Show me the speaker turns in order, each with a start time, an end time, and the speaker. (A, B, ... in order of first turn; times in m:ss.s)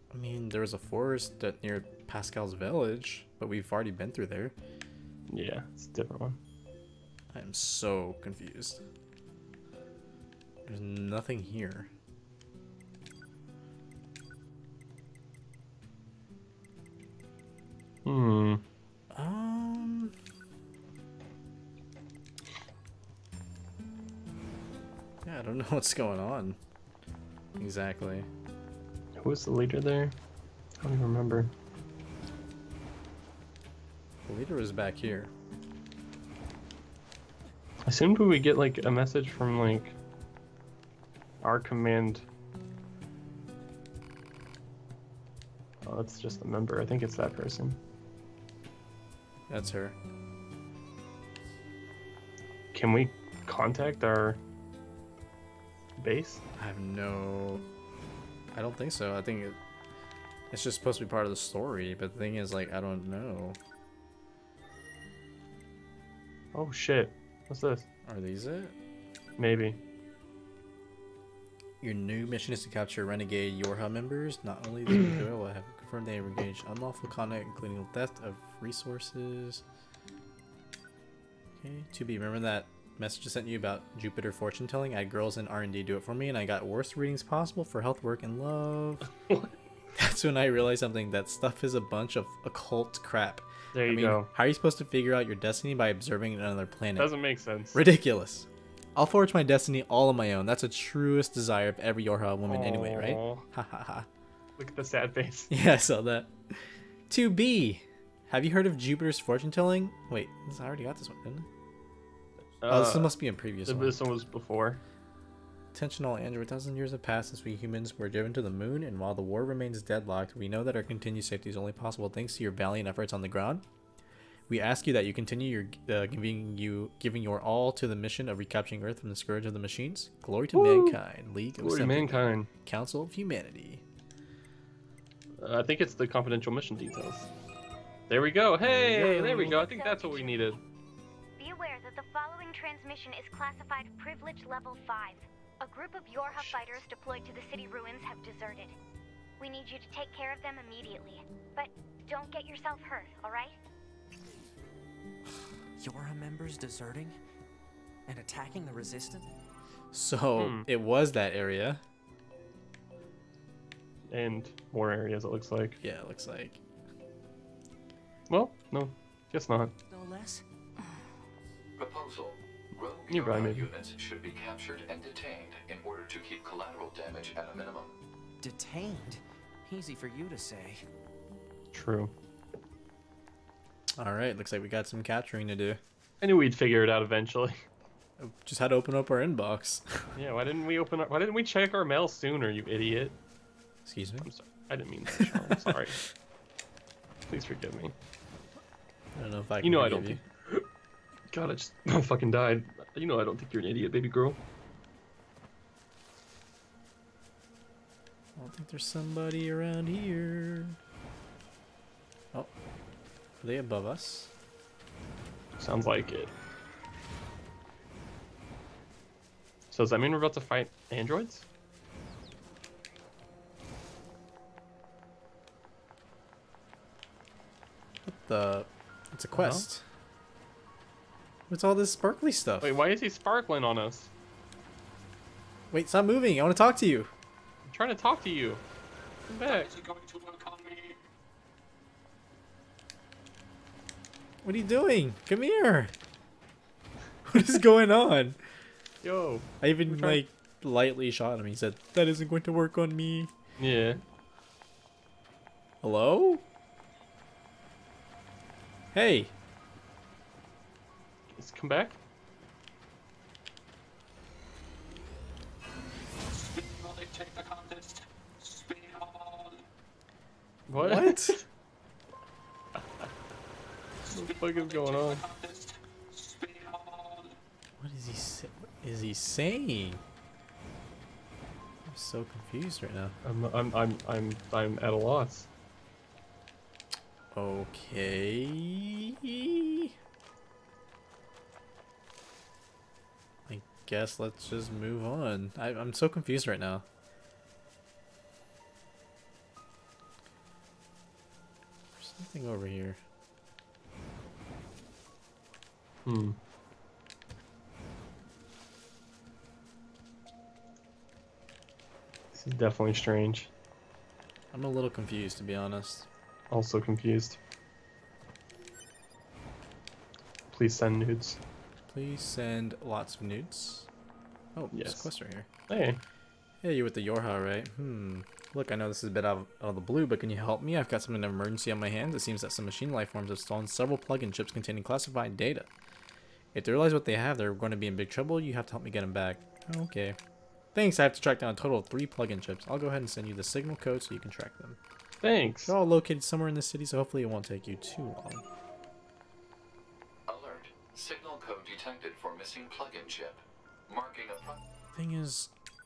0:00.1-0:04.5 A
0:05.3-0:06.4 B
0:07.3-0:08.8 A
0:10.6-0:11.9 A
0:18.0-0:18.6 B
0:19.1-0:20.1 A
0:25.2-0:26.6 A
0:27.6-0:28.3 A
0:29.2-0:30.2 B
0:30.8-0:31.5 B
0:34.2-0:35.3 A
0:37.8-0:40.0 B
0:41.4-0:42.2 B
0:45.8-0:47.8 B
0:49.5-0:50.0 A
0:52.7-0:54.4 B
0:56.0-0:56.4 B
0:56.6-0:57.6 A
0:58.5-0:59.6 A
1:00.5-1:03.6 A
1:06.5-1:07.8 B
1:08.0-1:08.7 A
1:09.4-1:09.8 B
1:11.8-1:19.6 A
1:21.6-1:29.1 A
1:30.0-1:37.1 A
1:33.7-1:34.3 B
1:37.0-1:37.8 B
1:37.7-1:44.1 A
1:42.5-1:43.4 B
1:44.6-1:45.5 B
1:45.5-1:51.4 A
1:52.6-1:54.8 B
1:52.7-1:53.9 A
1:55.7-2:03.6 A
2:04.5-2:13.8 A
2:10.5-2:11.0 B
2:11.6-2:12.5 B
2:15.4-2:17.3 B
2:18.1-2:20.6 B
2:18.6-2:19.6 A
2:19.2-2:20.6 C
2:21.4-2:28.8 C
2:29.4-2:33.6 C
2:35.8-2:37.2 D
2:38.1-2:39.3 D
2:39.9-2:41.8 A
2:40.4-2:40.7 B
2:44.1-2:45.8 B
2:45.8-2:46.6 A
2:48.3-2:49.7 B
2:49.9-2:50.4 D
2:51.8-2:57.9 E
2:53.1-2:53.7 B
2:58.4-3:00.8 D
3:01.7-3:02.1 B
3:04.0-3:05.8 A
3:06.2-3:07.5 B
3:08.2-3:10.1 A
3:10.2-3:13.2 B
3:13.8-3:14.3 A
3:14.2-3:16.0 B
3:17.3-3:17.9 B
3:19.1-3:20.2 A
3:19.6-3:20.6 B
3:21.3-3:24.4 B
3:28.4-3:30.8 A
3:33.4-3:34.3 A
3:35.6-3:36.3 B
3:39.7-3:41.4 B
3:48.0-3:49.8 A
3:49.3-3:49.6 B
3:51.5-3:52.7 A
3:52.6-3:54.1 B
3:55.7-3:57.1 A
3:57.6-3:58.6 B
3:59.3-3:59.9 B
4:04.4-4:05.9 A
4:07.2-4:08.4 A
4:09.0-4:10.2 B
4:09.6-4:13.3 A
4:13.6-4:14.0 B
4:15.8-4:16.4 A
4:18.9-4:19.3 A
4:21.3-4:22.0 B
4:26.9-4:27.8 C
4:28.8-4:29.4 C
4:30.7-4:31.4 B
4:30.8-4:31.4 A
4:34.1-4:35.3 B
4:37.8-4:40.0 A
4:41.8-4:43.2 A
4:43.2-4:45.5 B
4:47.3-4:49.9 A
4:53.5-4:56.8 A
5:02.0-5:03.0 A
5:06.0-5:06.4 B
5:12.3-5:13.5 B
5:14.5-5:16.1 A
5:16.5-5:17.4 B
5:20.5-5:21.4 B
5:21.9-5:23.9 A
5:24.5-5:25.5 A
5:24.7-5:25.1 B
5:25.7-5:26.0 B
5:26.6-5:35.7 A
5:36.5-5:40.2 A
5:40.7-5:44.8 A
5:45.2-5:45.7 B
5:45.7-5:48.4 A
5:50.3-5:54.6 E
5:54.9-5:55.5 A